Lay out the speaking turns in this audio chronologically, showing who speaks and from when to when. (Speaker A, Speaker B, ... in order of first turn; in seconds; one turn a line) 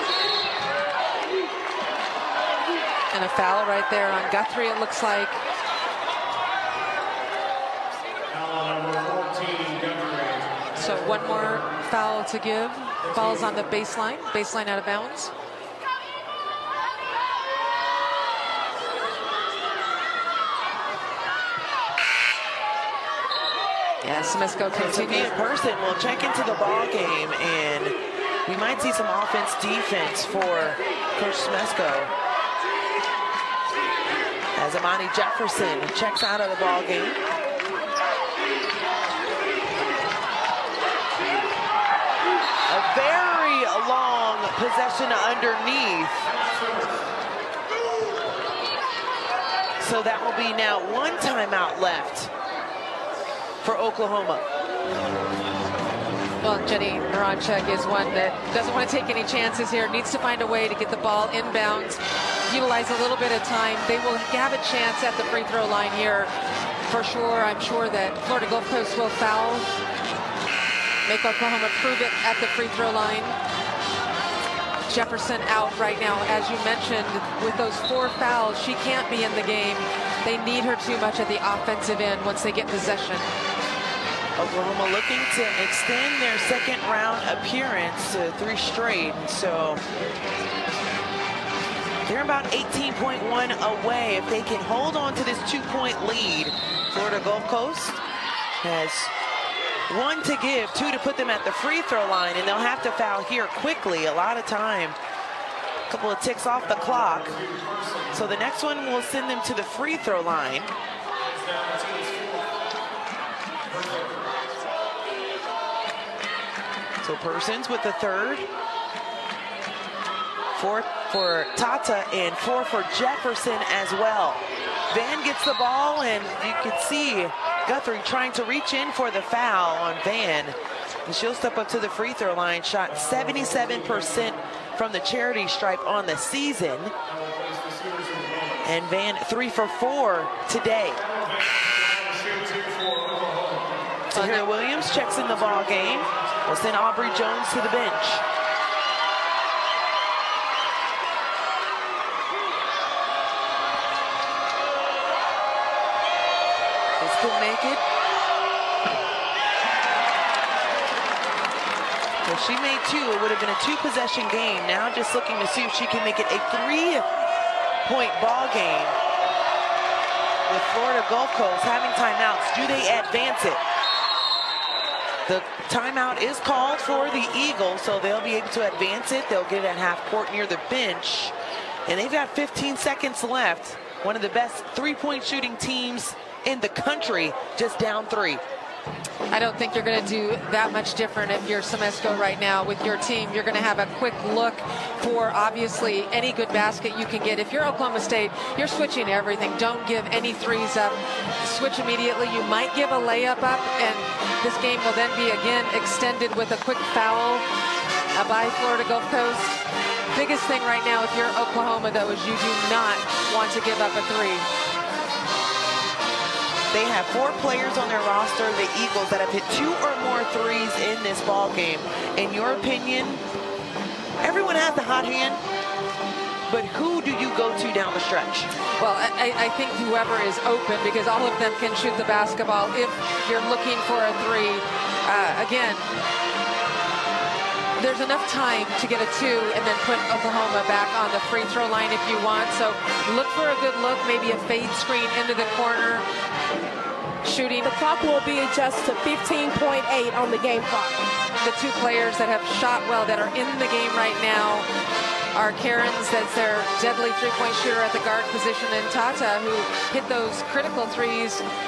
Speaker A: 3.1-5.4
Speaker A: 10.8-15.3
Speaker B: 13.0-13.5
Speaker A: 24.0-25.4
Speaker C: 24.7-27.9
Speaker C: 28.5-32.1
Speaker C: 34.6-37.2
Speaker C: 42.7-46.3
Speaker C: 49.8-52.3
Speaker C: 53.6-54.4
Speaker A: 56.4-66.3
Speaker A: 66.8-69.7
Speaker A: 71.1-73.4
Speaker A: 74.9-83.3
Speaker C: 84.4-89.8
Speaker C: 92.1-98.0
Speaker C: 98.6-99.1
Speaker C: 99.9-105.0
Speaker C: 105.9-107.4
Speaker C: 108.1-110.7
Speaker C: 117.0-118.5
Speaker C: 120.6-130.6
Speaker C: 131.1-136.9
Speaker C: 138.6-141.0
Speaker C: 144.1-148.2
Speaker A: 144.1-144.5
Speaker C: 157.0-157.8
Speaker C: 162.2-167.0
Speaker C: 167.8-169.0
Speaker C: 170.5-173.6
Speaker C: 175.3-181.3
Speaker C: 181.9-188.4
Speaker A: 189.3-207.4
Speaker A: 208.2-214.5
Speaker C: 216.7-223.2
Speaker C: 224.2-225.4
Speaker C: 226.5-228.5
Speaker A: 228.8-235.9
Speaker A: 237.8-246.1
Speaker A: 247.2-247.7
Speaker B: 247.6-251.0
Speaker A: 251.4-254.7
Speaker A: 255.3-261.4